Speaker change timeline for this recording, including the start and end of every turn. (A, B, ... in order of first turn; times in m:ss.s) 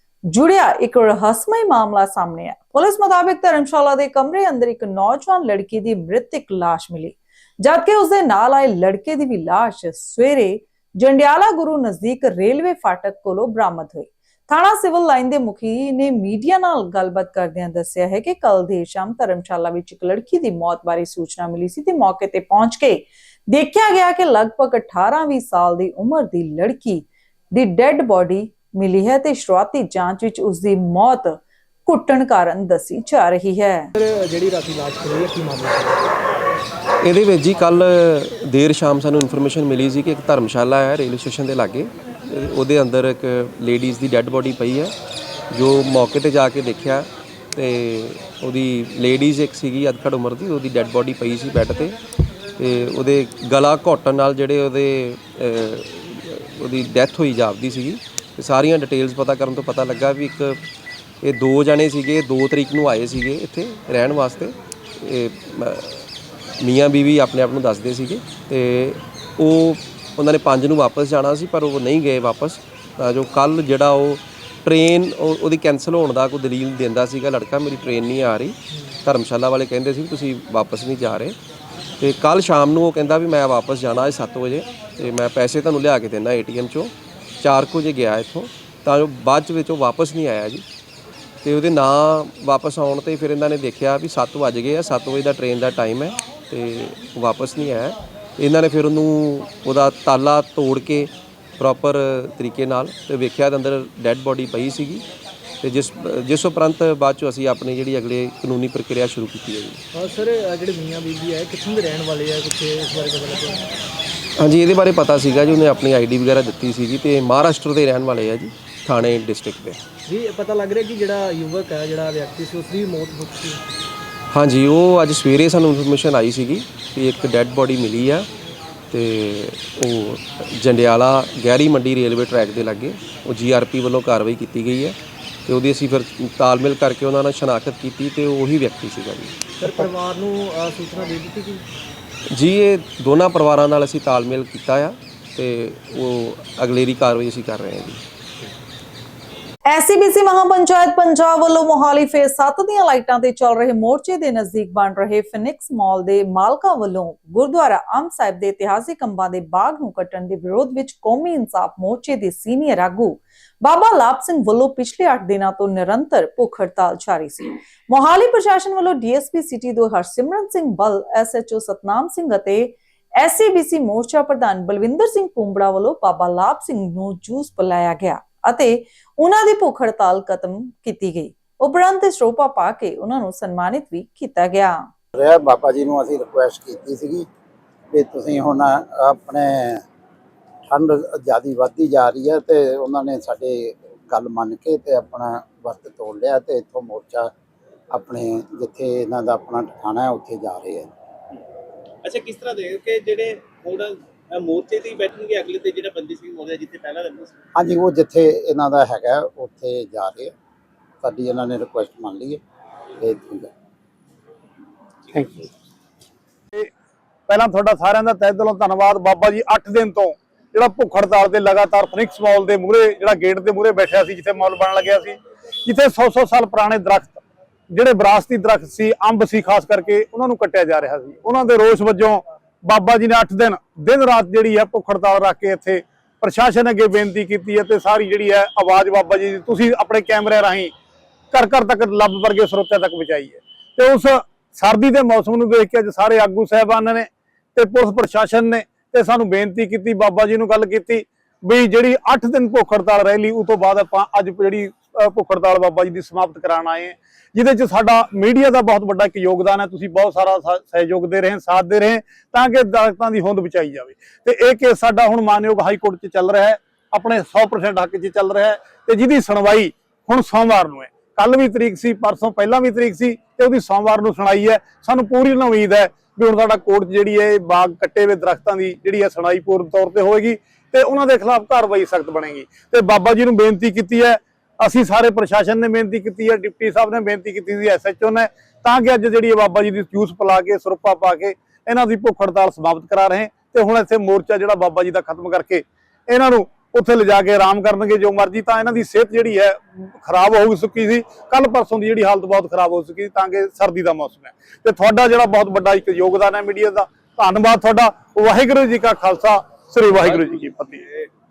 0:00.3-0:33.9 A
0:33.9-0:35.9 B
0:37.0-0:44.9 C
0:45.5-0:52.0 C
0:52.6-1:00.6 C
1:01.2-1:06.0 C
1:06.6-1:21.4 C
1:22.0-1:30.6 C
1:31.4-1:45.0 C
1:45.6-1:49.8 C
1:49.9-1:53.6 B
1:54.4-1:59.8 C
2:00.1-2:03.6 B
2:04.3-2:08.3 C
2:08.9-2:19.9 C
2:19.6-2:21.6 B
2:22.3-2:28.0 C
2:29.7-3:04.9 A
3:05.1-3:07.3 D
3:07.9-3:09.8 D
3:10.7-3:17.3 D
3:17.9-3:20.9 D
3:22.0-3:27.3 E
3:27.5-3:30.3 D
3:31.0-3:32.4 D
3:33.0-3:33.5 D
3:37.3-4:00.7 F
4:01.3-5:11.0 F